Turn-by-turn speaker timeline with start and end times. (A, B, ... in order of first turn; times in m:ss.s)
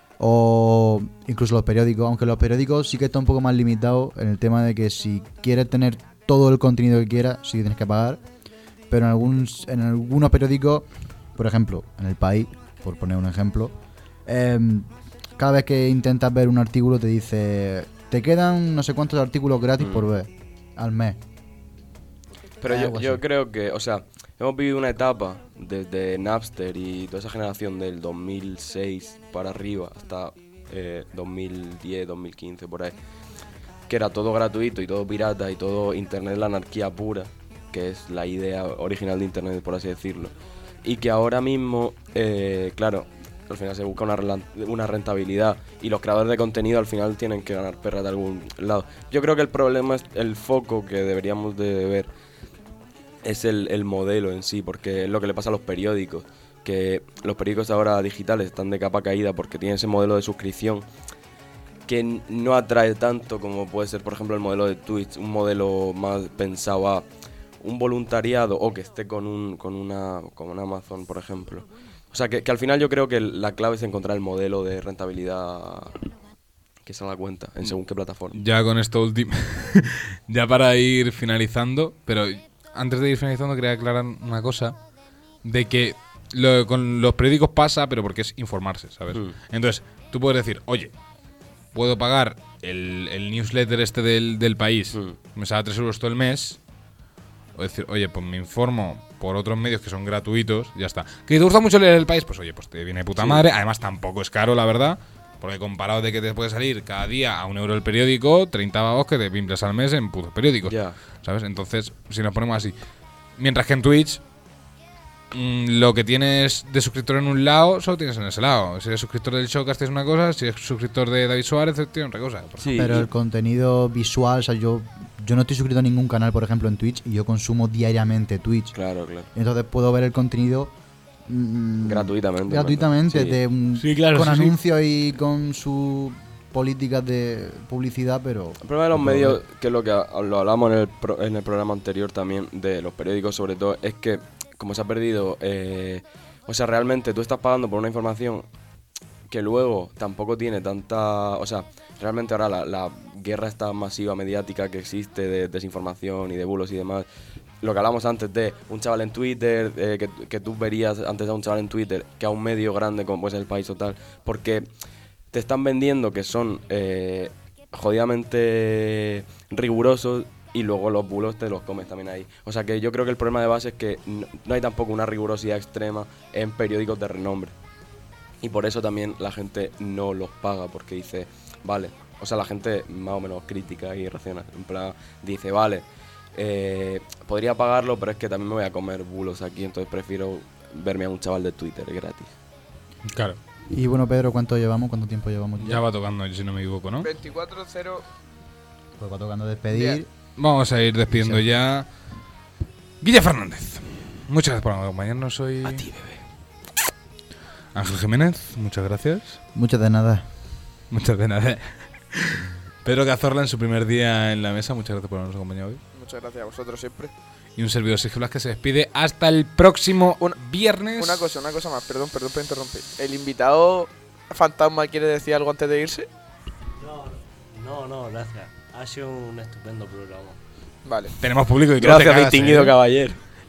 0:00.2-0:08.2 A
0:08.9-0:13.7 A
0:14.3-0:21.2 A
0:19.8-0:20.1 B
0:22.6-0:33.0 B
0:22.6-0:23.2 A
0:33.9-0:40.3 B
0:40.8-0:52.1 B
0:53.2-1:00.9 B
1:01.9-1:07.1 B
1:07.6-1:16.0 B
1:16.8-1:18.4 B
1:18.3-1:24.8 C
1:25.4-1:30.9 C
1:31.7-1:36.6 C
1:37.6-1:52.7 C
1:43.2-1:43.4 B
1:50.7-1:51.0 B
1:53.4-1:54.2 C
1:55.3-2:02.9 C
2:02.6-2:03.1 B
2:02.8-2:08.8 A
2:08.7-2:09.3 B
2:09.3-2:10.7 A
2:11.3-2:19.4 A
2:11.8-2:13.4 B
2:13.8-2:14.6 C
2:18.6-2:28.5 B
2:29.3-2:37.1 B
2:37.6-2:44.7 B
2:45.3-2:57.6 B
2:58.4-3:12.3 B
3:13.1-3:13.4 C
3:13.7-3:15.8 A
3:15.6-3:17.1 C
3:17.0-3:18.0 D
3:19.0-3:20.1 A
3:19.7-3:20.0 D
3:20.4-3:21.9 C
3:21.1-3:21.4 A
3:23.0-3:25.9 C
3:27.8-3:29.4 C
3:29.6-3:30.2 A
3:30.9-3:35.8 C
3:35.9-3:37.1 D
3:37.6-3:41.3 C
3:41.0-3:46.1 D
3:46.8-3:50.4 E
3:50.8-3:51.1 D
3:51.2-3:52.8 C
3:51.8-3:53.2 B